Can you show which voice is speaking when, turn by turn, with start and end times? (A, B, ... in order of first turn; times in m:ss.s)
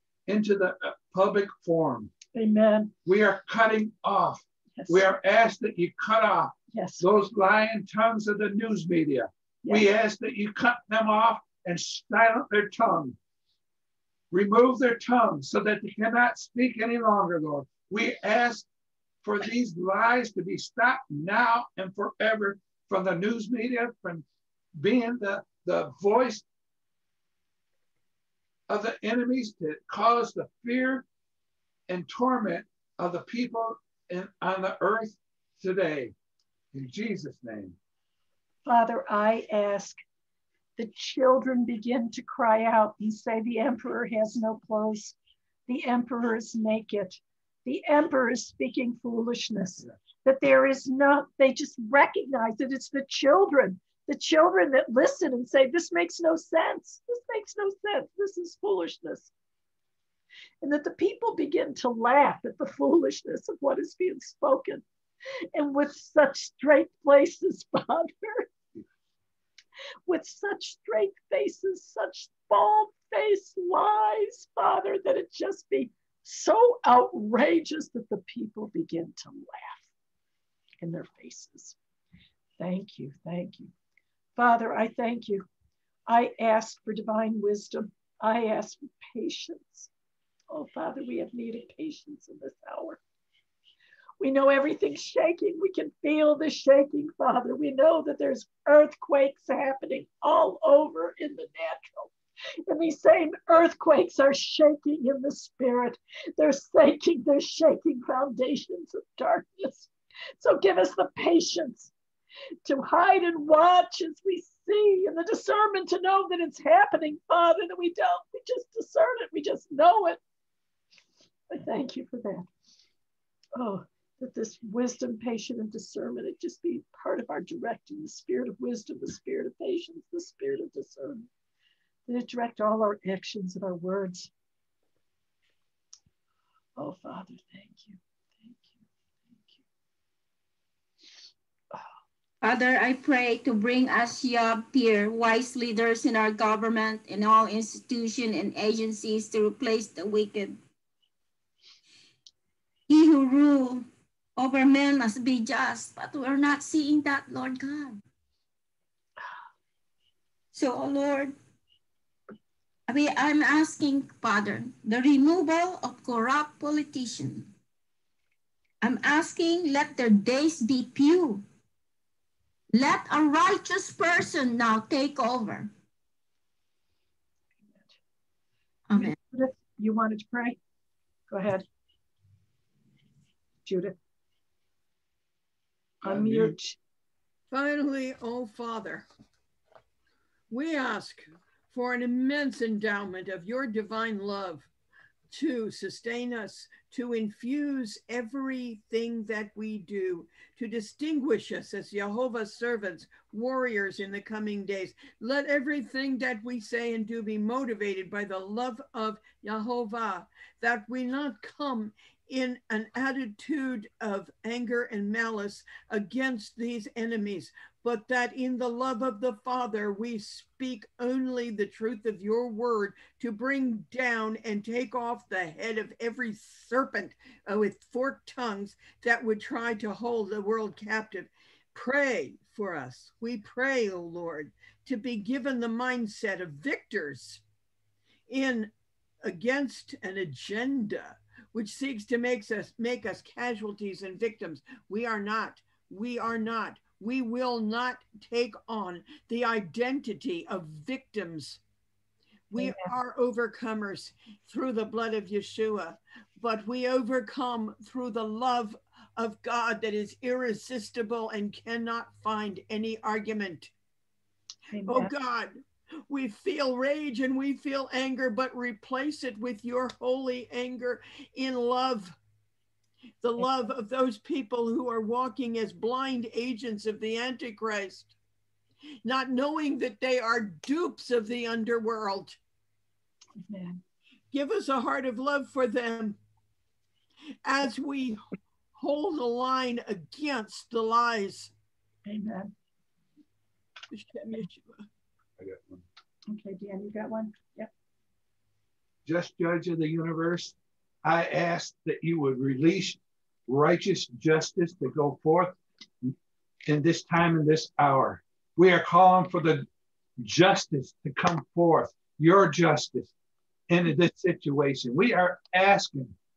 0:00.3-0:02.1 A
0:02.3-0:02.9 B
0:03.0-0:13.2 A
0:04.8-0:05.0 B
0:06.7-0:07.1 B
0:14.3-0:18.7 A
0:19.2-0:24.2 A
0:24.8-0:26.4 A
0:28.7-0:31.0 A
0:31.9-0:36.1 A
0:36.7-0:37.8 A
0:38.6-0:40.0 B
0:40.8-0:45.2 B
0:45.7-0:59.3 B
1:00.6-1:04.8 B
1:05.6-1:08.5 B
1:10.1-1:19.9 B
1:20.8-1:21.8 B
1:22.6-1:23.7 B
1:24.4-1:25.4 B
1:26.1-1:29.9 B
1:30.5-1:33.0 B
1:34.2-1:42.1 B
1:42.7-1:49.9 B
1:50.4-1:51.9 B
1:52.6-2:00.2 B
2:01.5-2:02.5 B
2:03.6-2:11.3 B
2:12.1-2:14.3 B
2:16.8-2:18.8 B
2:19.3-2:19.6 B
2:22.4-2:30.6 C
2:32.9-2:38.0 C
2:40.5-2:41.3 C
2:42.9-2:47.5 C
2:48.8-2:51.4 C
2:52.7-2:55.7 C
2:58.9-2:59.2 C
2:58.9-3:00.6 B
3:01.3-3:01.6 B
3:03.6-3:04.0 B
3:06.0-3:06.8 B
3:07.5-3:09.1 D
3:10.5-3:14.7 D
3:15.3-3:57.4 D
3:58.3-3:58.7 D
3:59.2-4:11.6 D
4:12.5-4:23.7 D
4:12.6-4:12.9 B
4:24.7-4:25.1 B
4:24.9-4:32.2 D
4:33.2-4:38.1 D
4:39.0-4:42.4 D
4:43.4-4:43.8 B
4:44.3-4:46.2 D
4:47.4-4:48.2 D
4:48.7-4:51.5 D
4:52.0-4:52.5 B
4:53.9-4:54.8 D
4:55.4-4:55.8 A
4:56.3-4:57.7 B
4:59.0-5:06.1 A
5:06.6-5:09.7 A
5:10.2-5:13.1 A
5:13.7-5:16.1 A